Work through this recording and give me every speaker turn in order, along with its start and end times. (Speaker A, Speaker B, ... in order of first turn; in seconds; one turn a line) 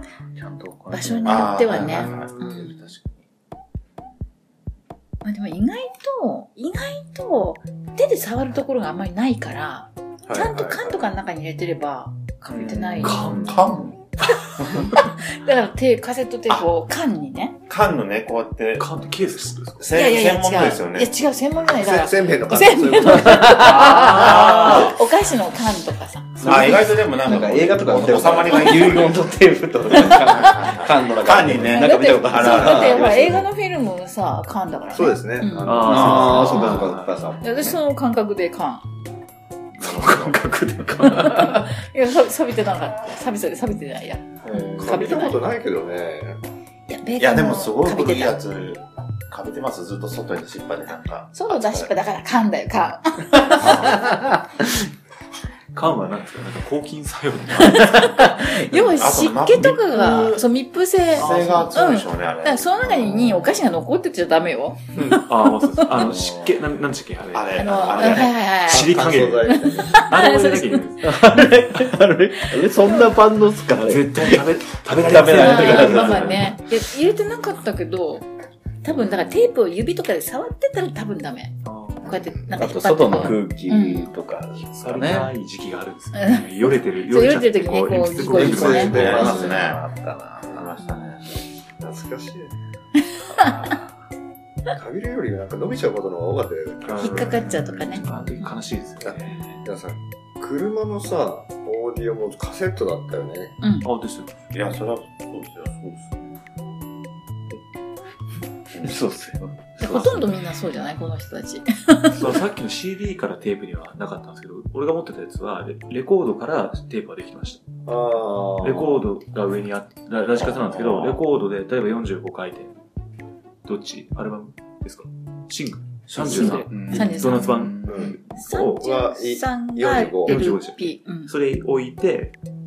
Speaker A: 0.3-2.2
Speaker B: 0.9-3.0
Speaker C: 1.2-3.2
Speaker B: 5.2-13.7
Speaker D: 10.3-11.1
Speaker C: 12.6-14.0
Speaker A: 12.7-13.1
Speaker E: 13.0-13.8
Speaker B: 14.3-17.6
Speaker C: 17.7-19.0
Speaker E: 18.8-19.9
Speaker C: 19.8-21.1
Speaker B: 19.9-26.9
Speaker D: 21.7-23.8
Speaker A: 23.3-24.4
Speaker E: 23.6-25.0
Speaker C: 24.1-25.0
Speaker A: 26.4-33.4
Speaker C: 26.4-29.4
Speaker C: 29.9-33.3
Speaker B: 29.9-30.3
Speaker B: 31.7-36.0
Speaker D: 34.9-37.7
Speaker E: 35.6-37.4
Speaker A: 35.7-37.0
Speaker B: 37.4-38.9
Speaker C: 39.8-40.4
Speaker E: 39.8-41.7
Speaker B: 41.2-45.4
Speaker C: 44.4-45.2
Speaker D: 44.8-46.4
Speaker B: 46.9-48.4
Speaker C: 47.2-51.9
Speaker B: 51.3-54.0
Speaker C: 53.5-54.0
Speaker E: 55.8-58.2
Speaker B: 57.6-65.2
Speaker C: 58.9-60.5
Speaker C: 61.1-63.5
Speaker E: 61.2-61.7
Speaker E: 65.2-71.9
Speaker A: 65.9-66.5
Speaker C: 67.3-68.3
Speaker B: 67.5-70.8
Speaker D: 68.7-70.0
Speaker A: 71.0-76.6
Speaker E: 73.8-76.6
Speaker B: 75.3-78.3
Speaker B: 78.8-84.1
Speaker E: 81.7-82.0
Speaker A: 82.5-85.3
Speaker E: 84.6-89.3
Speaker B: 86.2-89.6
Speaker A: 88.1-90.7
Speaker D: 88.8-89.6
Speaker C: 88.9-89.9
Speaker C: 90.4-91.3
Speaker B: 90.8-91.2
Speaker D: 91.8-92.5
Speaker C: 93.4-93.8
Speaker D: 94.7-97.6
Speaker E: 96.8-99.6
Speaker B: 97.0-98.5
Speaker D: 99.0-103.6
Speaker B: 103.6-103.9
Speaker E: 103.8-104.5
Speaker C: 104.5-106.3
Speaker A: 108.8-110.3
Speaker B: 109.8-112.3
Speaker E: 112.1-117.6
Speaker D: 117.9-119.0
Speaker E: 118.6-122.7
Speaker C: 120.4-121.2
Speaker E: 123.7-128.7
Speaker C: 126.1-126.6
Speaker A: 126.2-128.1
Speaker B: 126.3-127.7
Speaker D: 127.9-130.4
Speaker B: 128.3-131.3
Speaker E: 130.3-132.4